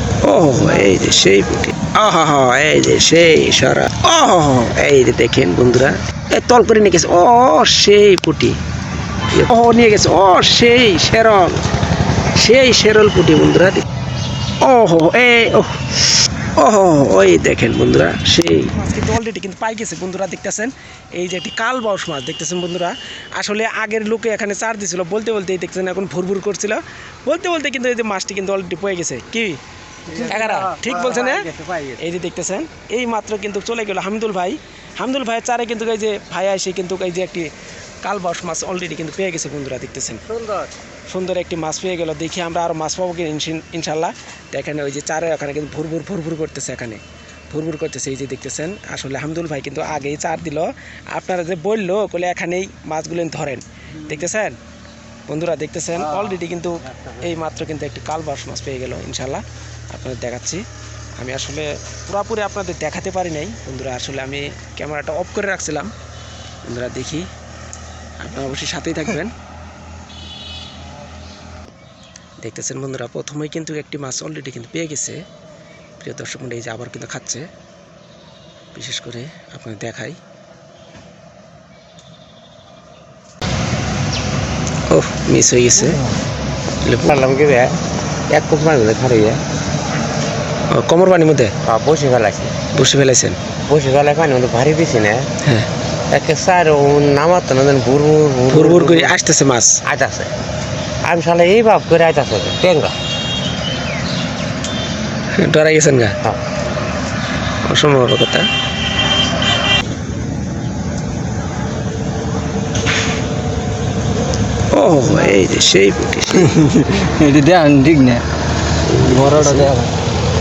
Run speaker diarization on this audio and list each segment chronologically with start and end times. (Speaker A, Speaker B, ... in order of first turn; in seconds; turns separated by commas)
Speaker A: 0.2-8.6, Speaker A: 9.3-11.6, Speaker A: 12.3-13.8, Speaker A: 14.6-16.0, Speaker A: 16.5-29.6, Speaker A: 30.1-40.4, Speaker B: 30.1-30.7, Speaker A: 41.1-54.6, Speaker A: 55.3-60.6, Speaker A: 61.2-65.9, Speaker A: 66.6-67.3, Speaker A: 68.2-69.3, Speaker A: 72.4-75.2, Speaker A: 76.0-77.5, Speaker A: 78.7-80.2, Speaker A: 84.9-86.0, Speaker A: 86.8-87.2, Speaker C: 87.0-89.4, Speaker A: 90.7-91.5, Speaker C: 91.6-92.5, Speaker A: 92.7-93.4, Speaker C: 93.7-95.3, Speaker A: 95.4-95.7, Speaker C: 96.1-99.1, Speaker A: 98.5-99.8, Speaker C: 99.8-100.3, Speaker C: 101.0-103.0, Speaker A: 105.3-106.2, Speaker A: 107.6-108.5, Speaker A: 114.7-116.8, Speaker B: 116.4-118.2, Speaker A: 118.9-119.7, Speaker B: 119.0-119.9